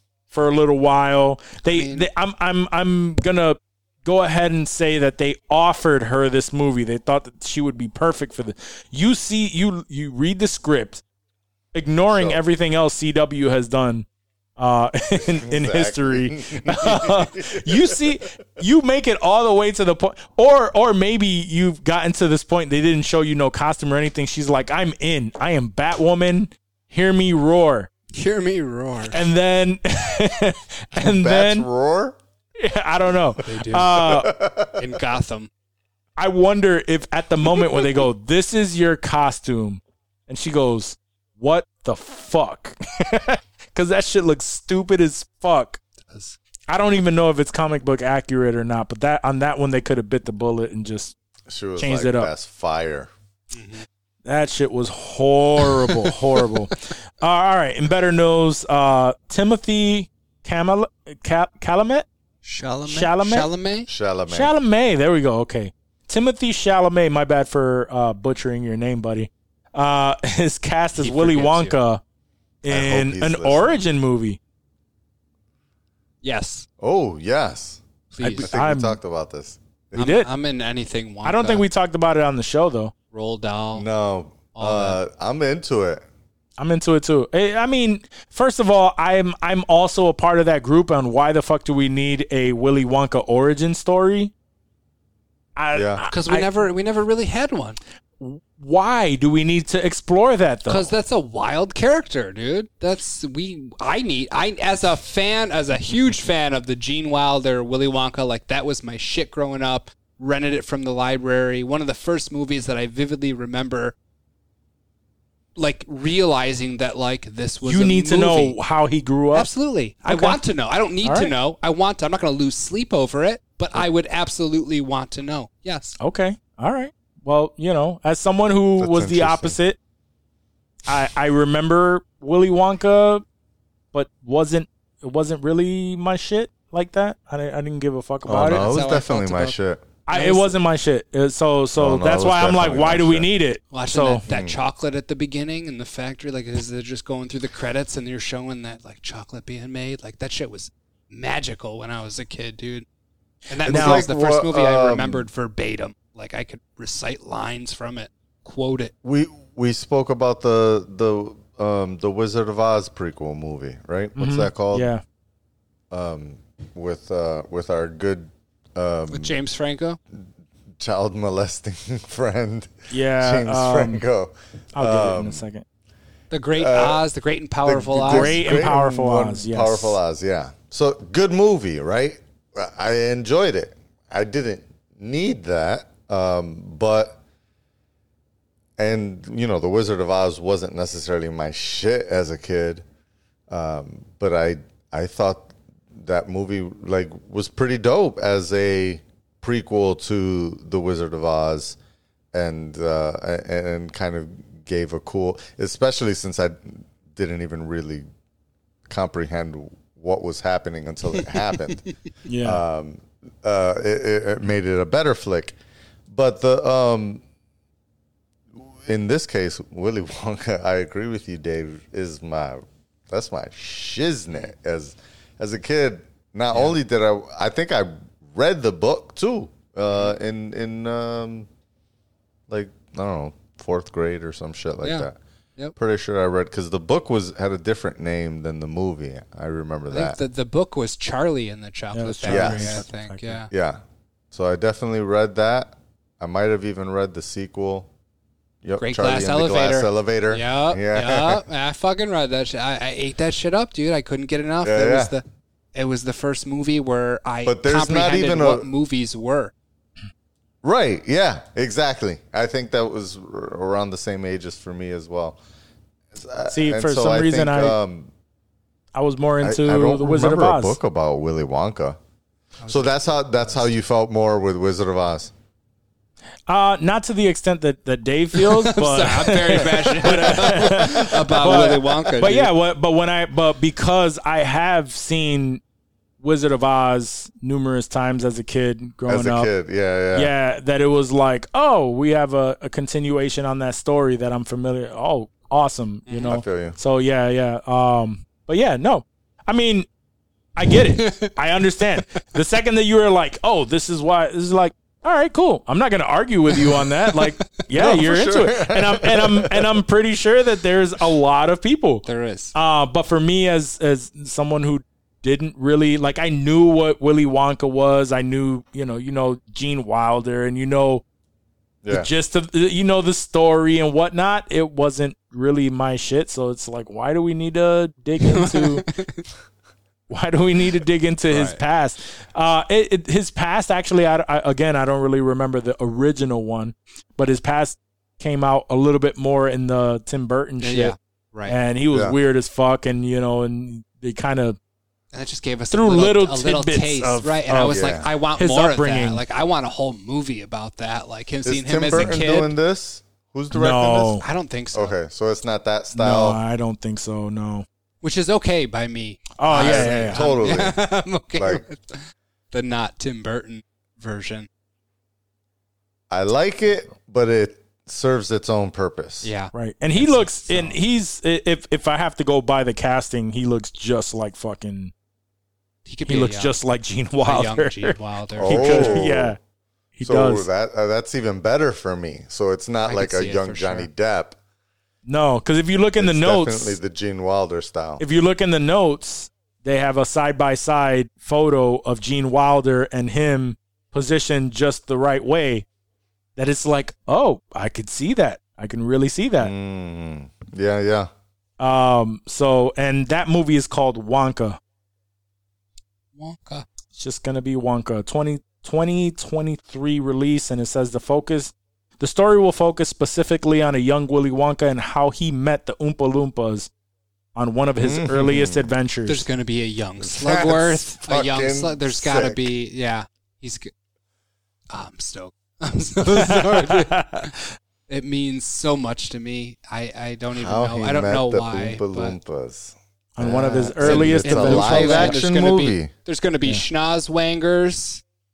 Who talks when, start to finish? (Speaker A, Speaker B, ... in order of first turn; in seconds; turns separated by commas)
Speaker A: 0.3-11.0, Speaker B: 1.6-2.1, Speaker A: 11.7-14.1, Speaker C: 12.1-12.4, Speaker A: 14.6-27.9, Speaker C: 15.2-18.0, Speaker B: 28.1-29.2, Speaker A: 29.1-31.7, Speaker C: 30.9-32.2, Speaker A: 32.6-34.3, Speaker B: 33.4-35.5, Speaker C: 33.9-34.9, Speaker A: 36.2-45.8, Speaker B: 46.1-46.4, Speaker A: 46.7-51.1, Speaker C: 51.5-53.1, Speaker A: 51.8-52.3, Speaker B: 53.5-53.9, Speaker A: 54.2-62.0, Speaker B: 62.4-63.9, Speaker A: 62.9-63.5, Speaker C: 63.9-64.5, Speaker A: 64.3-72.0, Speaker B: 70.9-71.8, Speaker A: 72.6-74.4, Speaker C: 72.6-73.8, Speaker B: 76.2-76.7, Speaker C: 76.8-80.0, Speaker B: 78.1-78.5, Speaker A: 78.2-79.0, Speaker A: 80.0-80.3, Speaker B: 80.0-81.6, Speaker A: 81.2-82.9, Speaker B: 83.1-83.8, Speaker C: 83.7-86.0, Speaker B: 84.5-85.0, Speaker A: 86.6-94.3, Speaker A: 95.5-96.5, Speaker C: 95.7-96.0, Speaker B: 96.1-97.8, Speaker A: 98.2-100.9, Speaker B: 100.7-113.9, Speaker B: 115.5-118.6, Speaker A: 117.6-119.5, Speaker B: 119.3-126.0, Speaker A: 120.0-120.4, Speaker A: 121.0-121.3, Speaker A: 126.0-129.8, Speaker C: 128.8-129.6, Speaker A: 130.9-133.2, Speaker A: 133.9-138.7, Speaker C: 138.2-139.8, Speaker B: 138.4-139.6, Speaker A: 140.1-144.2, Speaker B: 140.1-140.6, Speaker C: 141.8-143.3, Speaker B: 143.7-152.8, Speaker C: 144.3-144.6, Speaker B: 153.5-158.9, Speaker A: 153.6-154.1, Speaker C: 153.6-155.3, Speaker C: 159.0-164.9, Speaker A: 164.2-165.0, Speaker C: 165.9-169.3, Speaker B: 169.1-170.0, Speaker C: 170.8-175.4, Speaker A: 172.9-174.0, Speaker A: 174.7-175.6, Speaker B: 176.3-178.6, Speaker C: 176.6-177.0, Speaker C: 177.6-187.2, Speaker A: 178.1-180.0, Speaker C: 188.8-192.8, Speaker C: 193.5-201.8, Speaker C: 202.3-208.0, Speaker C: 208.9-211.9, Speaker A: 212.2-212.6, Speaker C: 212.4-215.6, Speaker C: 216.1-217.2, Speaker C: 218.6-231.5, Speaker C: 232.5-235.1, Speaker B: 234.8-235.7, Speaker C: 235.8-240.2, Speaker B: 239.9-243.5, Speaker A: 241.9-243.4, Speaker C: 242.2-242.8, Speaker C: 243.5-243.8, Speaker C: 244.3-247.9, Speaker C: 248.6-251.4, Speaker B: 248.8-255.2, Speaker C: 254.6-255.1, Speaker B: 255.7-259.5, Speaker C: 257.4-258.7, Speaker C: 260.6-265.4, Speaker C: 266.1-268.1, Speaker A: 266.5-267.8, Speaker A: 268.9-270.8, Speaker C: 269.4-272.0, Speaker B: 272.6-273.3, Speaker C: 272.7-275.3, Speaker A: 276.5-285.6, Speaker B: 278.3-282.5, Speaker A: 286.2-289.5, Speaker C: 289.1-290.3, Speaker A: 290.1-299.9, Speaker B: 296.1-296.3, Speaker C: 296.3-296.8, Speaker A: 300.6-321.0, Speaker B: 300.8-301.3, Speaker B: 306.5-307.4, Speaker C: 307.7-309.7, Speaker B: 312.0-312.5, Speaker C: 321.8-322.1, Speaker A: 321.9-328.9, Speaker B: 328.2-329.2, Speaker A: 330.1-340.9, Speaker B: 331.3-331.6, Speaker B: 340.6-341.6, Speaker A: 341.4-344.6, Speaker C: 341.9-342.2, Speaker B: 345.1-352.5, Speaker A: 345.7-347.8, Speaker C: 347.6-348.1, Speaker A: 348.4-349.2, Speaker C: 351.4-354.2, Speaker A: 353.5-354.2, Speaker B: 354.2-355.0, Speaker C: 354.7-356.4, Speaker A: 355.9-357.6, Speaker B: 358.0-364.5, Speaker A: 359.4-360.2, Speaker C: 359.5-360.8, Speaker C: 361.3-361.6, Speaker C: 366.1-369.3, Speaker B: 369.2-370.8, Speaker A: 369.5-374.9, Speaker B: 375.9-376.6, Speaker A: 376.1-379.4, Speaker B: 377.2-379.1, Speaker C: 378.4-379.4, Speaker A: 380.0-380.5, Speaker C: 380.0-384.4, Speaker B: 382.8-383.9, Speaker A: 385.1-386.8, Speaker C: 386.0-388.0, Speaker A: 388.0-395.6, Speaker A: 396.4-399.5, Speaker C: 399.4-401.1, Speaker A: 401.6-404.6, Speaker B: 406.1-406.6, Speaker A: 407.0-416.7, Speaker A: 417.4-419.2, Speaker C: 417.8-418.7, Speaker B: 419.1-423.7, Speaker C: 420.0-422.4, Speaker B: 424.7-427.3, Speaker A: 426.1-427.4, Speaker B: 427.9-432.2, Speaker C: 430.3-435.9, Speaker A: 433.1-435.2, Speaker B: 433.2-438.0